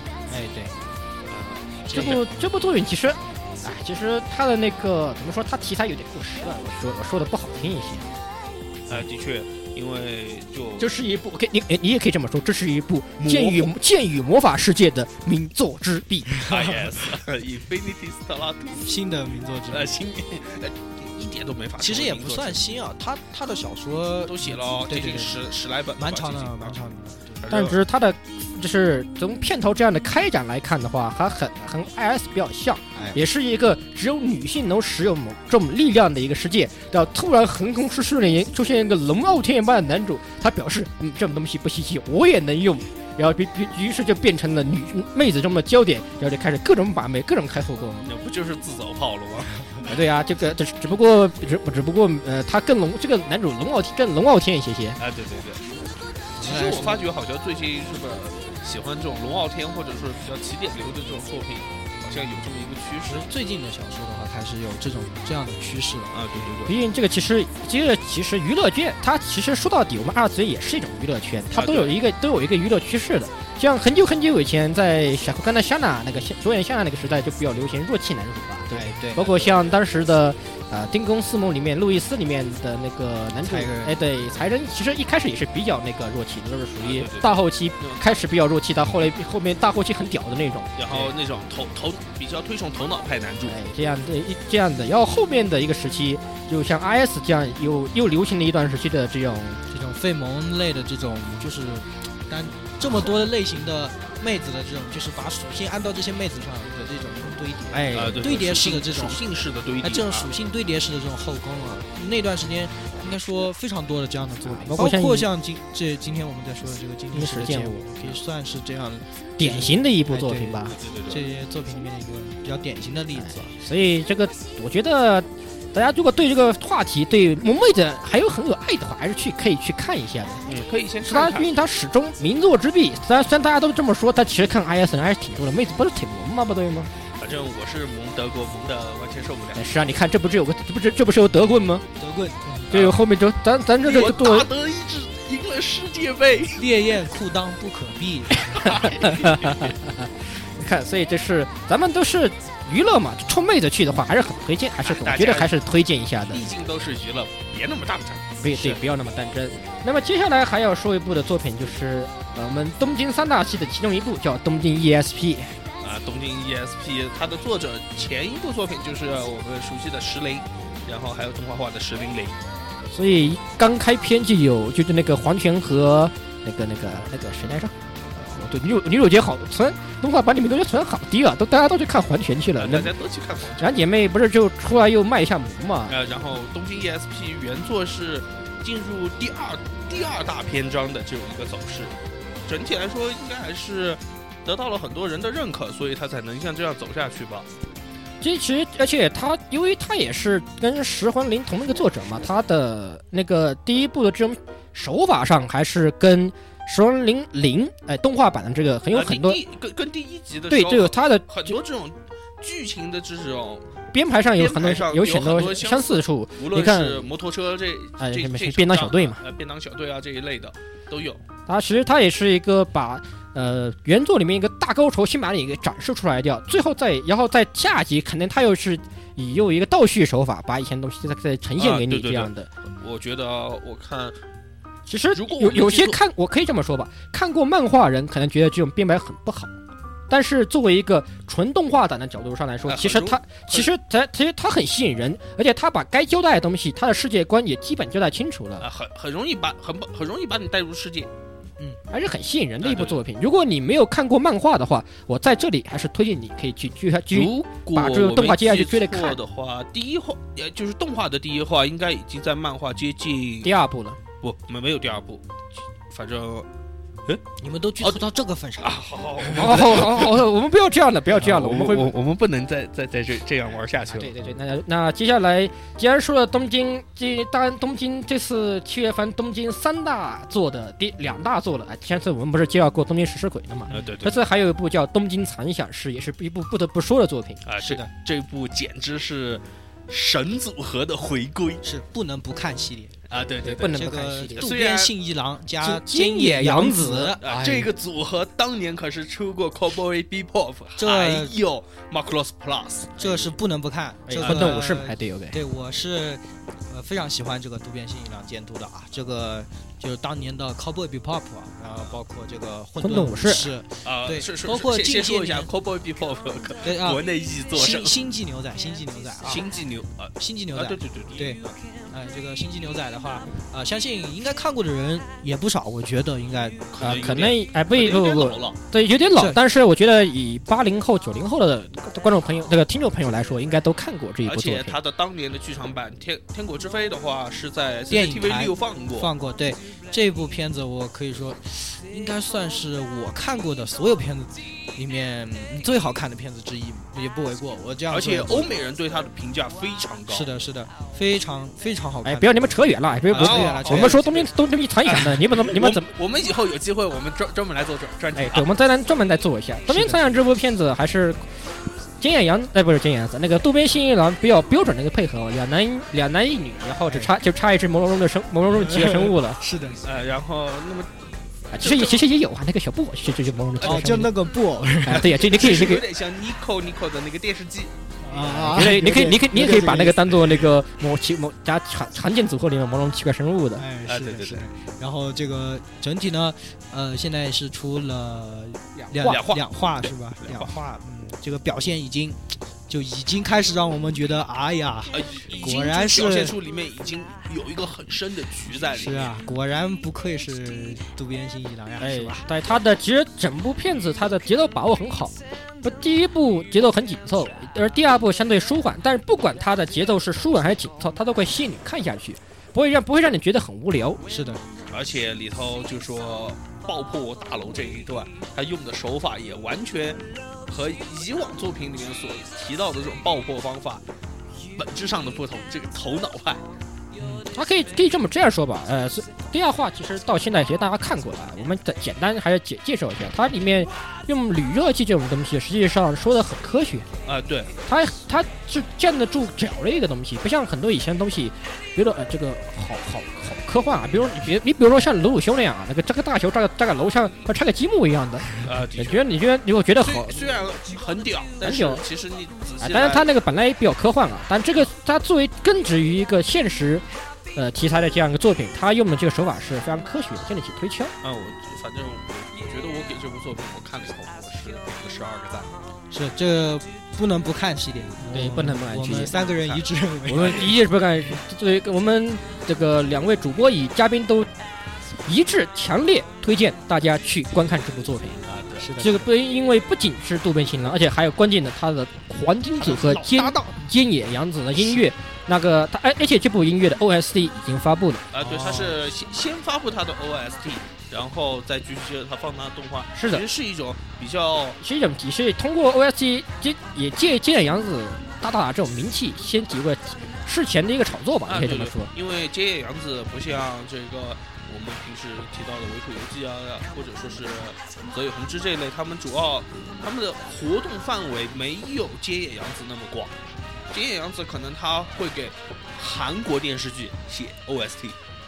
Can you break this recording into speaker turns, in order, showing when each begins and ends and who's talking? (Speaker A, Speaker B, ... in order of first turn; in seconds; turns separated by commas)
Speaker A: 0.3-0.7, Speaker B: 1.3-2.2, Speaker A: 1.9-2.2, Speaker C: 1.9-8.1, Speaker B: 8.9-10.9, Speaker C: 10.8-16.4, Speaker B: 13.2-13.7, Speaker B: 16.4-18.8, Speaker A: 18.8-19.9, Speaker B: 19.7-22.6, Speaker A: 21.8-25.4, Speaker B: 24.2-26.8, Speaker A: 26.0-27.5, Speaker B: 27.4-27.8, Speaker C: 27.5-48.1, Speaker A: 32.9-33.2, Speaker B: 48.0-49.8, Speaker C: 49.8-55.0, Speaker B: 55.0-55.6, Speaker A: 56.4-57.0, Speaker B: 56.4-63.2, Speaker A: 63.0-66.2, Speaker B: 66.1-66.8, Speaker C: 66.7-90.8, Speaker B: 71.5-72.0, Speaker A: 78.7-79.5, Speaker A: 83.4-84.0, Speaker B: 86.8-88.1, Speaker B: 90.8-93.6, Speaker C: 93.4-99.6, Speaker A: 99.7-109.2, Speaker C: 107.7-108.2, Speaker B: 107.9-110.3, Speaker A: 109.8-123.5, Speaker C: 114.4-115.3, Speaker C: 117.1-117.9, Speaker C: 119.4-120.8, Speaker B: 120.7-121.2, Speaker C: 123.2-130.4, Speaker B: 130.5-131.5, Speaker C: 131.0-136.9, Speaker B: 137.2-139.8, Speaker C: 139.5-141.8, Speaker A: 142.0-142.7, Speaker C: 142.7-144.5, Speaker B: 142.7-143.0, Speaker B: 143.8-146.6, Speaker A: 146.6-148.5, Speaker B: 148.4-149.7, Speaker C: 148.6-156.5, Speaker B: 154.8-155.5, Speaker B: 156.3-158.8, Speaker C: 158.4-165.6, Speaker B: 165.8-172.4, Speaker C: 172.9-182.9, Speaker B: 182.6-183.8, Speaker C: 183.6-185.9, Speaker B: 185.9-191.9, Speaker B: 192.5-197.5, Speaker C: 198.2-209.4, Speaker B: 208.9-213.7, Speaker C: 210.5-211.6, Speaker C: 213.9-217.1, Speaker B: 214.3-221.2, Speaker C: 218.0-219.2, Speaker C: 221.5-232.5, Speaker B: 231.6-234.2, Speaker C: 234.9-239.5, Speaker B: 235.1-236.0, Speaker C: 240.1-248.7, Speaker B: 242.7-243.7, Speaker B: 248.6-251.1, Speaker C: 251.9-259.2, Speaker B: 252.6-253.0, Speaker B: 257.1-263.5, Speaker C: 263.4-264.0, Speaker B: 264.2-265.2, Speaker B: 265.9-266.5, Speaker A: 267.4-268.9, Speaker B: 268.6-270.2, Speaker C: 269.3-271.9, Speaker B: 271.1-274.1, Speaker C: 273.9-287.4, Speaker B: 283.7-284.2, Speaker B: 287.4-291.6, Speaker A: 287.6-287.9, Speaker A: 291.6-292.9, Speaker B: 293.1-293.8, Speaker C: 293.4-294.5, Speaker A: 293.7-297.7, Speaker B: 294.3-294.9, Speaker C: 295.6-297.2, Speaker B: 297.2-303.3, Speaker A: 300.8-301.3, Speaker A: 303.0-315.5, Speaker C: 304.1-305.4, Speaker B: 304.2-304.6, Speaker C: 312.8-313.5, Speaker B: 313.8-317.9, Speaker A: 316.6-319.4, Speaker B: 319.2-321.5, Speaker A: 320.2-326.7, Speaker B: 326.7-328.6, Speaker C: 326.8-334.8, Speaker B: 334.2-339.1, Speaker A: 337.9-348.5, Speaker B: 347.9-350.3, Speaker A: 350.1-352.6, Speaker C: 352.0-355.9, Speaker A: 353.1-354.1, Speaker B: 353.1-354.3, Speaker B: 354.8-358.5, Speaker C: 358.1-361.3, Speaker A: 359.7-360.0, Speaker C: 362.0-369.4, Speaker A: 366.9-367.1, Speaker A: 368.5-369.8, Speaker B: 369.8-370.9, Speaker C: 371.5-374.1, Speaker B: 371.6-372.0, Speaker B: 373.6-373.9, Speaker A: 373.6-375.1, Speaker C: 374.8-375.8, Speaker B: 375.0-378.6, Speaker A: 378.0-380.4, Speaker C: 378.5-383.6, Speaker A: 383.6-396.3, Speaker B: 383.9-384.5, Speaker B: 388.9-390.6, Speaker B: 394.9-399.2, Speaker A: 398.7-402.2, Speaker C: 401.8-414.0, Speaker A: 414.1-414.4, Speaker B: 414.7-423.8, Speaker B: 424.6-426.4, Speaker A: 427.0-427.3, Speaker C: 427.3-436.9, Speaker B: 437.1-437.5, Speaker C: 437.7-450.2, Speaker B: 448.4-449.0, Speaker B: 449.8-453.1, Speaker C: 451.4-451.8, Speaker C: 452.6-460.9, Speaker B: 461.0-465.5, Speaker A: 465.9-470.6, Speaker C: 468.1-469.1, Speaker B: 469.1-469.6, Speaker C: 470.1-474.3, Speaker B: 470.2-470.5, Speaker C: 475.0-478.2, Speaker B: 478.2-478.7, Speaker A: 478.6-479.1, Speaker C: 478.8-488.1, Speaker B: 482.6-483.3, Speaker B: 488.1-494.6, Speaker A: 488.2-488.8, Speaker C: 492.9-493.3, Speaker C: 494.6-501.9, Speaker B: 501.3-513.1, Speaker B: 513.7-518.0